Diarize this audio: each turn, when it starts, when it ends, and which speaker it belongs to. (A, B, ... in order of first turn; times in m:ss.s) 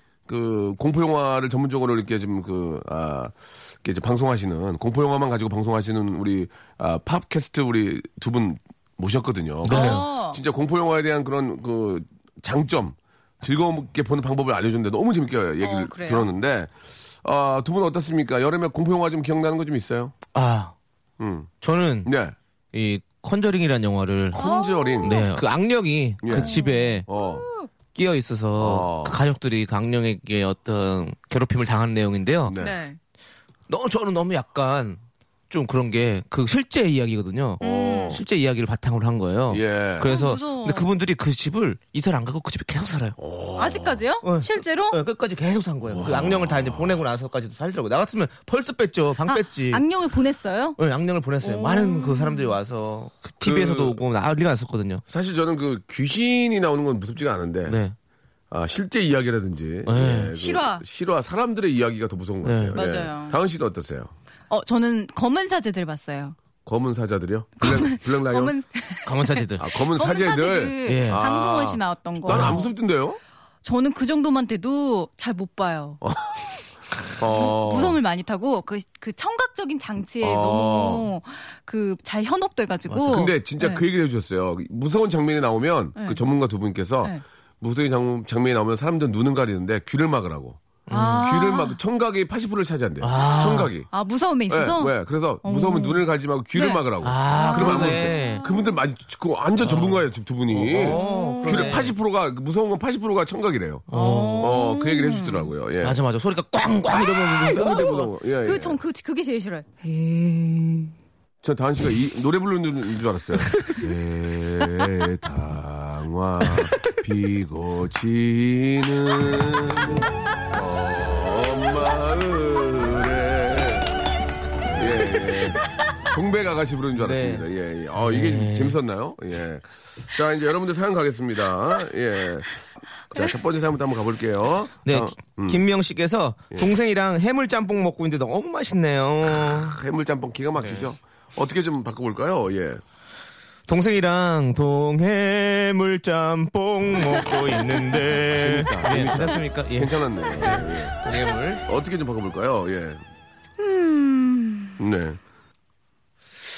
0:00.3-0:20.1 A
0:09.6-0:10.0 B
0:09.7-0:10.4 C
0:15.6-0:16.3 C
0:20.3-0:20.7 B
0:21.2-0:21.5 A
0:21.6-0:22.1 B
0:22.0-0:22.3 A
0:22.7-0:24.4 B
0:24.3-0:25.2 A
0:24.3-0:25.4 C
0:25.0-0:27.1 B
0:26.2-0:26.5 A
0:26.3-0:27.7 C
0:27.1-0:27.4 A
0:27.9-0:32.6 B
0:28.6-0:29.2 A
0:32.4-0:32.8 A
0:32.6-0:33.0 C
0:33.7-0:43.2 B
0:37.6-0:38.2 A
0:37.6-0:38.2 C
0:39.5-0:40.2 A
0:40.0-0:40.9 C
0:43.2-0:44.0 A
0:43.6-0:45.0 C
0:44.2-0:49.8 B
0:45.9-0:47.0 A
0:49.3-0:50.8 C
0:50.8-0:55.0 B
0:51.4-0:52.6 C
0:53.4-0:54.0 A
0:55.1-0:57.8 A
0:57.7-0:57.9 B
0:58.5-1:04.1 A
0:59.8-1:00.3 B
1:00.3-1:00.8 C
1:02.4-1:02.8 B
1:02.7-1:03.4 C
1:04.5-1:06.4 C
1:06.6-1:08.5 A
1:07.6-1:12.7 C
1:09.0-1:09.6 B
1:09.6-1:13.2 A
1:10.8-1:11.2 B
1:12.3-1:12.6 B
1:13.6-1:16.0 C
1:16.0-1:16.4 A
1:17.2-1:18.0 A
1:17.2-1:23.8 C
1:20.2-1:21.1 A
1:22.9-1:23.2 B
1:23.1-1:30.6 A
1:26.0-1:26.2 C
1:30.9-1:31.2 B
1:30.9-1:31.8 C
1:31.2-1:33.9 A
1:33.0-1:33.7 B
1:33.2-1:38.6 C
1:34.5-1:43.9 A
1:37.0-1:38.4 B
1:39.6-1:41.9 B
1:40.8-1:41.8 C
1:43.9-1:44.6 B
1:43.9-1:45.5 C
1:44.4-1:46.0 A
1:45.8-1:47.9 B
1:46.9-1:48.8 A
1:47.5-1:50.9 C
1:51.4-2:04.0 A
1:53.5-1:53.8 B
2:04.7-2:15.6 A
2:06.9-2:08.8 B
2:14.8-2:19.8 B
2:19.5-2:22.8 A
2:20.6-2:20.9 B
2:23.7-2:31.6 B
2:28.2-2:31.0 A
2:31.6-2:33.0 A
2:33.6-2:34.8 C
2:34.8-2:35.2 A